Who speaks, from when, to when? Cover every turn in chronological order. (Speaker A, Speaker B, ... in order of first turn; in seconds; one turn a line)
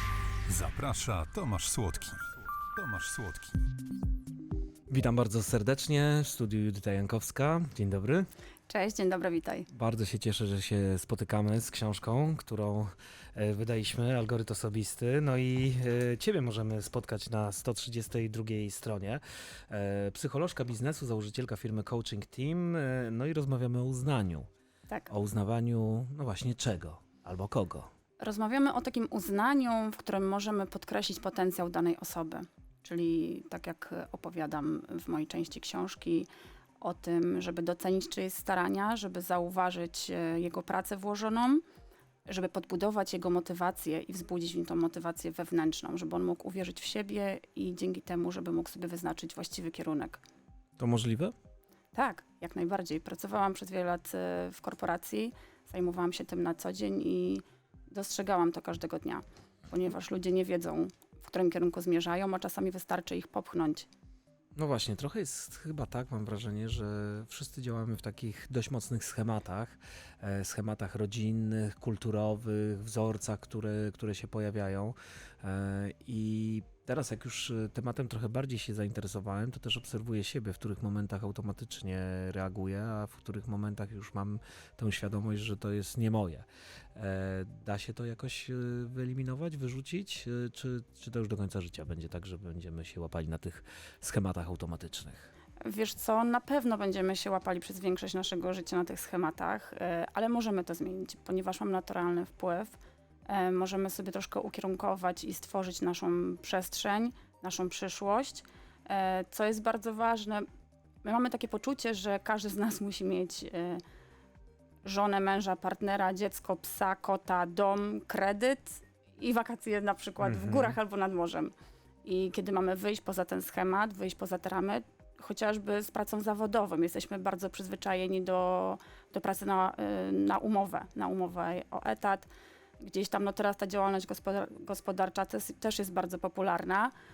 Speaker A: 0.5-3.7
Speaker B: 4.9-8.3
Speaker C: 8.7-9.7
Speaker B: 9.7-24.5
Speaker B: 25.1-27.9
Speaker C: 28.2-36.3
Speaker C: 36.8-41.6
Speaker C: 42.3-50.2
Speaker B: 50.8-51.3
Speaker C: 51.9-63.9
Speaker B: 64.5-95.3
Speaker C: 95.6-102.8
Speaker C: 103.3-110.4
Speaker C: 111.0-113.8
Speaker C: 114.8-121.5
Speaker B: 120.2-120.8
Speaker C: 122.0-132.3
Speaker C: 132.8-136.9